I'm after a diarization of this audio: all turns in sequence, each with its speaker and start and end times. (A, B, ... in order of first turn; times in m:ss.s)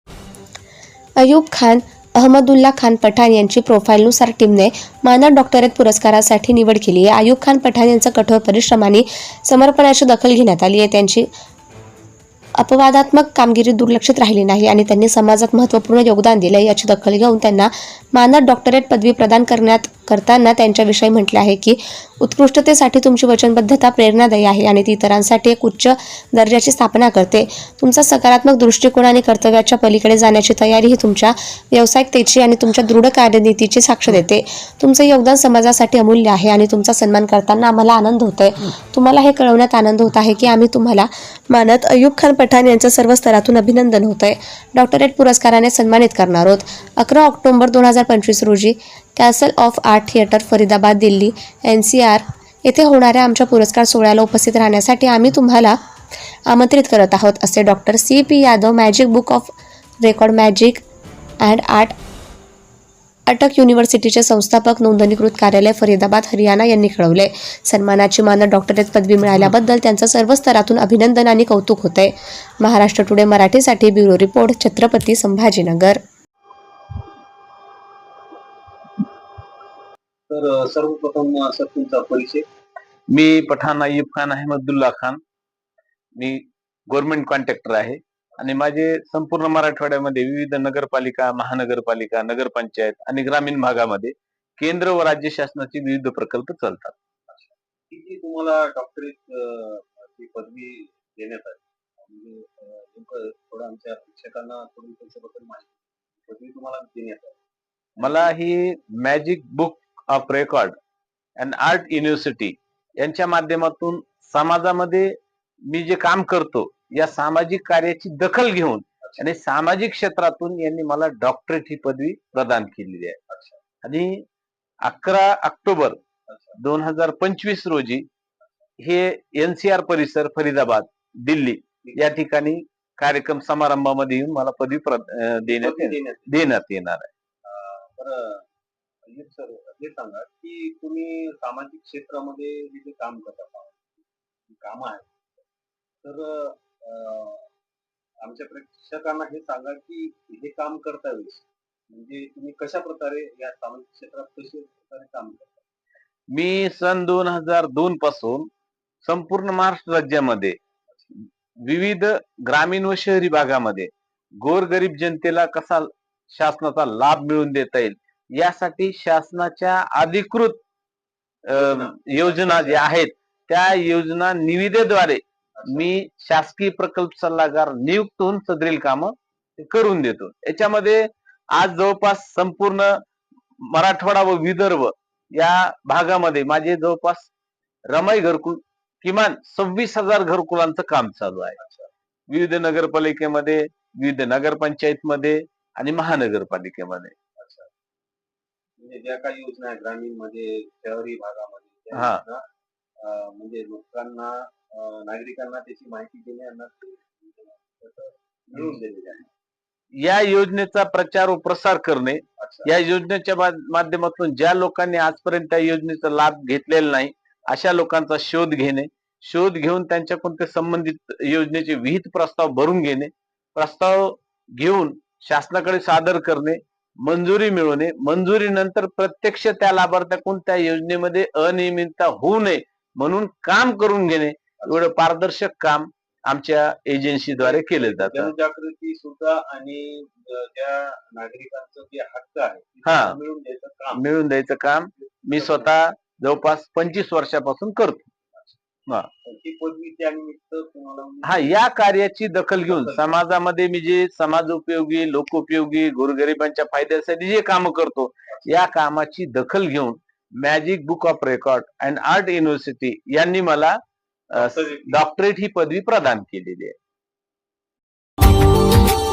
0:01.2-0:11.3 A
0:12.6-0:55.8 A
0:56.5-1:00.8 A
1:01.4-1:01.9 A
1:03.3-1:16.0 A
1:20.3-1:22.4 B
1:23.1-1:25.2 C
1:26.2-1:36.9 C
1:37.3-1:47.4 B
1:48.0-1:48.3 B
1:48.0-1:50.8 C
1:51.4-1:55.2 C
1:55.7-2:03.2 C
1:59.0-1:59.3 B
2:03.3-2:03.6 B
2:03.8-2:04.2 C
2:04.8-2:06.0 C
2:06.3-2:06.6 B
2:06.6-2:08.0 C
2:08.8-2:17.1 C
2:15.4-2:16.4 B
2:17.4-2:18.4 B
2:19.0-2:25.4 B
2:26.0-2:27.4 B
2:28.2-2:35.6 B
2:36.3-2:38.5 C
2:39.0-2:40.6 C
2:41.6-2:50.6 C
2:51.5-2:52.9 B
2:51.5-3:03.0 C
2:55.6-2:55.9 B
3:03.6-3:07.3 C
3:07.9-3:11.6 C
3:11.6-3:11.9 B
3:12.3-3:17.1 C
3:17.4-3:17.7 B
3:18.8-3:22.4 B
3:21.9-3:22.2 C
3:23.0-3:29.3 B
3:30.0-3:58.3 C
3:32.4-3:32.7 B
3:57.3-4:04.0 B
4:02.8-4:03.2 C
4:03.9-4:08.1 C
4:05.3-4:05.7 B
4:09.2-4:11.6 B
4:11.2-4:23.8 C
4:12.6-4:13.1 B
4:24.3-4:25.0 B
4:24.3-4:26.8 C